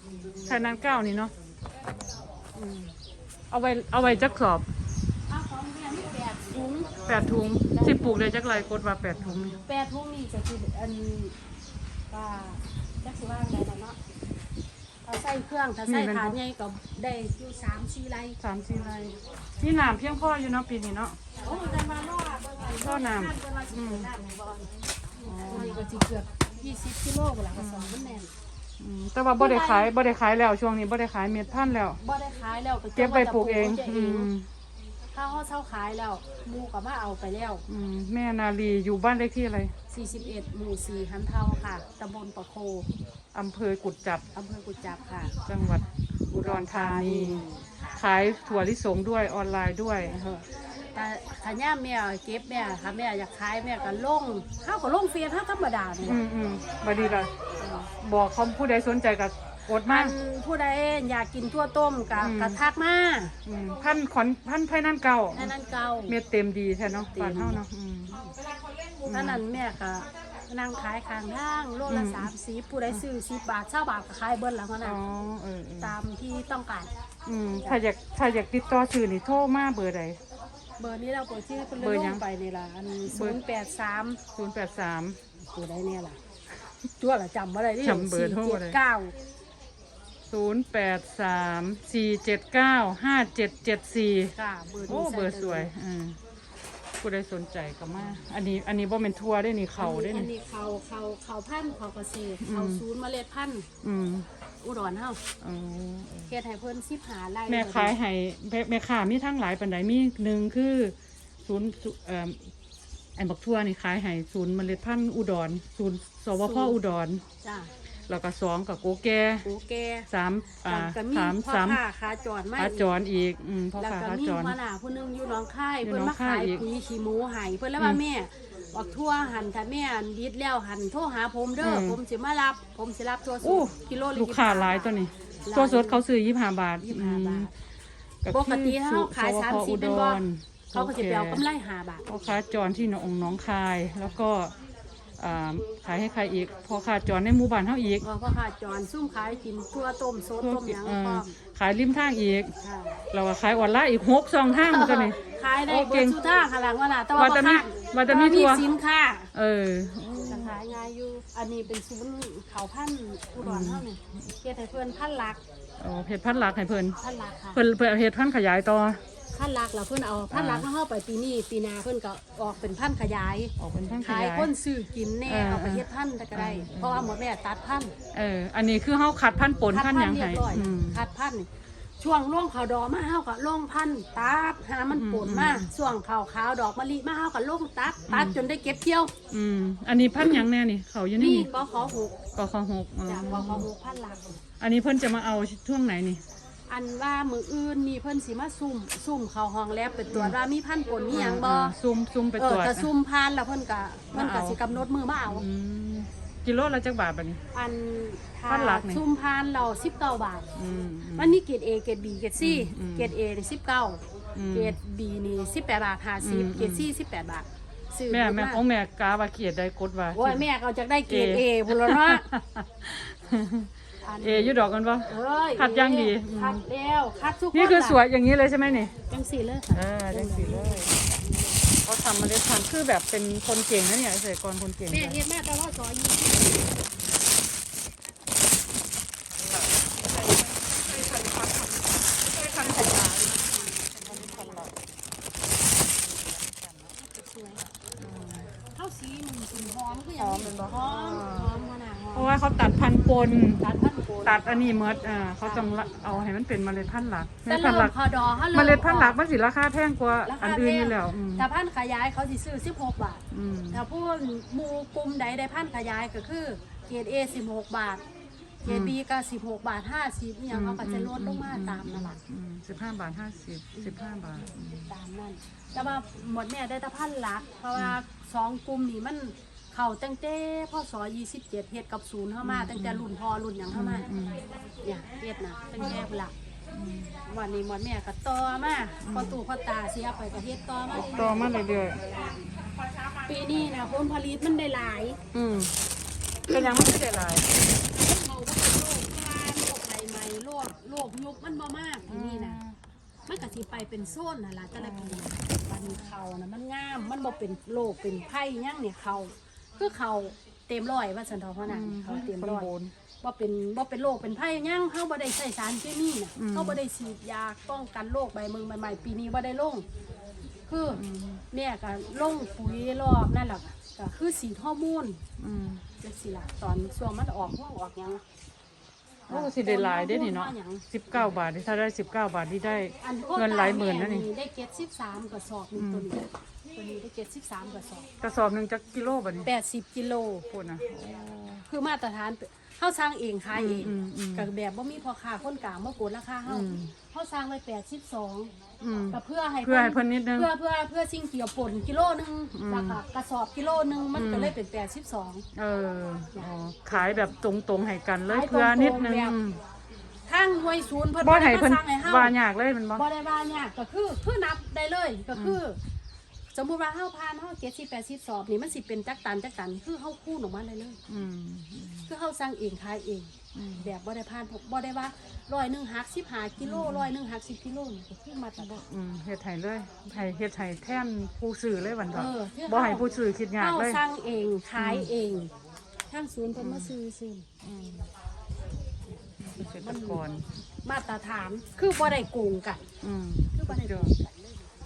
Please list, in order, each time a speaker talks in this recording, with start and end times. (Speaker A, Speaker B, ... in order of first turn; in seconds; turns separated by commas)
Speaker A: 0.4-1.3, Speaker B: 2.5-2.9, Speaker A: 3.5-4.7, Speaker B: 5.3-7.1, Speaker A: 7.0-9.6, Speaker B: 7.7-8.2, Speaker B: 9.6-11.4, Speaker B: 12.1-14.0, Speaker B: 15.1-18.4, Speaker A: 15.9-16.4, Speaker A: 18.4-21.2, Speaker B: 21.4-24.7, Speaker A: 22.8-24.1, Speaker A: 25.2-25.8, Speaker B: 25.4-28.3, Speaker A: 27.5-27.9, Speaker A: 28.8-32.0, Speaker B: 29.4-29.9, Speaker B: 32.0-34.3, Speaker A: 33.0-34.5, Speaker B: 35.1-37.6, Speaker A: 37.7-39.7, Speaker B: 39.9-42.9, Speaker A: 43.3-44.2, Speaker B: 44.3-45.3, Speaker A: 45.5-47.4, Speaker B: 46.3-47.6, Speaker A: 47.9-50.4, Speaker B: 51.0-56.2, Speaker A: 56.0-57.3, Speaker B: 56.9-57.9, Speaker A: 58.0-60.1, Speaker B: 59.8-63.3, Speaker A: 62.2-62.6, Speaker A: 63.5-65.5, Speaker B: 65.3-66.2, Speaker A: 66.1-68.1, Speaker B: 67.1-68.3, Speaker A: 69.1-69.4, Speaker B: 69.1-75.0, Speaker A: 71.9-72.3, Speaker A: 74.8-76.0, Speaker B: 75.8-76.9, Speaker A: 77.3-80.2, Speaker B: 80.8-84.2, Speaker A: 81.8-82.2, Speaker A: 83.1-83.4, Speaker A: 84.3-85.2, Speaker B: 85.4-86.2, Speaker B: 87.0-89.1, Speaker A: 87.8-88.8, Speaker A: 90.3-94.3, Speaker B: 94.3-95.7, Speaker A: 94.9-96.2, Speaker A: 97.0-100.3, Speaker B: 99.8-103.7, Speaker A: 102.4-102.8, Speaker A: 103.8-104.3, Speaker B: 104.6-105.2, Speaker A: 105.4-106.3, Speaker B: 106.3-107.9, Speaker A: 107.5-112.5, Speaker A: 113.2-117.2, Speaker B: 116.4-116.8, Speaker B: 117.4-117.7, Speaker A: 118.1-119.5, Speaker B: 119.4-120.1, Speaker A: 120.1-121.8, Speaker B: 120.7-122.9, Speaker A: 122.6-124.6, Speaker B: 123.8-134.9, Speaker A: 125.8-126.7, Speaker A: 131.6-132.0, Speaker A: 133.4-137.5, Speaker B: 135.4-136.0, Speaker B: 136.8-137.5, Speaker A: 138.2-141.4, Speaker B: 138.3-142.0, Speaker A: 142.1-144.5, Speaker A: 145.2-148.0, Speaker B: 148.0-151.3, Speaker A: 150.4-152.5, Speaker B: 152.6-153.0, Speaker A: 153.1-156.2, Speaker B: 154.7-159.3, Speaker A: 157.2-158.7, Speaker A: 159.3-160.6, Speaker B: 160.3-165.4, Speaker A: 163.4-163.8, Speaker A: 165.8-167.0, Speaker B: 167.0-167.6, Speaker A: 167.5-169.0, Speaker B: 169.3-177.9, Speaker A: 170.3-170.7, Speaker A: 173.6-174.5, Speaker A: 175.2-177.1, Speaker A: 178.1-181.0, Speaker B: 179.7-189.1, Speaker A: 184.9-185.7, Speaker A: 188.1-188.4, Speaker A: 189.3-191.5, Speaker B: 191.2-192.2, Speaker A: 192.3-193.7, Speaker B: 193.1-194.4, Speaker A: 194.6-196.2, Speaker B: 196.7-201.7, Speaker A: 200.1-200.4, Speaker A: 201.1-202.9, Speaker B: 202.4-205.4, Speaker A: 204.1-204.7, Speaker A: 205.2-207.4, Speaker B: 207.5-210.5, Speaker A: 208.5-209.0, Speaker A: 210.6-211.4, Speaker B: 211.2-218.6, Speaker A: 212.4-213.1, Speaker A: 214.3-214.8, Speaker A: 216.2-216.9, Speaker A: 218.1-220.4, Speaker B: 220.1-222.4, Speaker A: 221.1-226.6, Speaker B: 224.0-228.0, Speaker A: 227.5-228.9, Speaker B: 229.1-231.6, Speaker A: 229.7-230.9, Speaker A: 231.8-235.2, Speaker B: 234.9-237.1, Speaker A: 239.3-244.8, Speaker B: 242.4-244.3, Speaker A: 246.0-246.9, Speaker B: 247.0-247.7, Speaker A: 248.0-248.4, Speaker B: 248.5-252.3, Speaker A: 250.2-251.5, Speaker A: 252.1-253.7, Speaker B: 253.6-254.4, Speaker A: 254.2-257.9, Speaker B: 255.4-255.7, Speaker B: 257.5-259.2, Speaker A: 258.5-261.5, Speaker B: 260.2-268.0, Speaker A: 263.3-263.8, Speaker B: 268.6-272.2, Speaker A: 268.7-269.0, Speaker A: 270.5-274.9, Speaker B: 274.9-284.1, Speaker A: 282.4-283.1, Speaker A: 283.7-284.4, Speaker B: 284.8-286.3, Speaker A: 286.7-287.1, Speaker B: 287.2-292.2, Speaker A: 289.0-289.4, Speaker A: 290.9-292.0, Speaker B: 293.2-295.2, Speaker A: 295.3-295.7, Speaker A: 296.5-297.5, Speaker B: 296.5-297.0, Speaker B: 297.6-302.6, Speaker A: 302.1-302.8, Speaker B: 303.3-312.7, Speaker A: 304.8-305.3, Speaker A: 311.7-312.9, Speaker B: 313.2-319.9, Speaker A: 316.4-316.8, Speaker B: 320.7-325.2, Speaker A: 320.9-321.4, Speaker A: 325.4-325.8, Speaker B: 326.0-328.2, Speaker B: 329.3-330.9, Speaker A: 329.3-334.3, Speaker B: 333.0-338.1, Speaker A: 335.8-336.1, Speaker A: 338.2-339.5, Speaker B: 339.4-340.5, Speaker A: 340.5-341.6, Speaker B: 341.7-348.5, Speaker A: 343.5-344.5, Speaker A: 346.5-346.9, Speaker A: 348.8-350.5, Speaker B: 349.1-355.4, Speaker A: 352.6-353.0, Speaker A: 354.1-354.5, Speaker A: 355.6-359.6, Speaker B: 358.3-359.4, Speaker B: 360.3-362.3, Speaker A: 361.2-363.1, Speaker B: 363.0-365.8, Speaker B: 366.5-371.0, Speaker A: 371.1-372.1, Speaker B: 372.1-378.8, Speaker A: 373.6-373.9, Speaker A: 376.6-377.1, Speaker A: 378.6-384.0, Speaker B: 382.1-383.1, Speaker B: 383.6-385.5, Speaker A: 384.8-385.1, Speaker B: 386.1-387.5, Speaker A: 386.6-386.9, Speaker A: 387.6-388.1, Speaker A: 389.4-390.4, Speaker B: 389.6-390.2, Speaker B: 390.8-392.8, Speaker A: 393.0-394.1, Speaker B: 393.5-394.6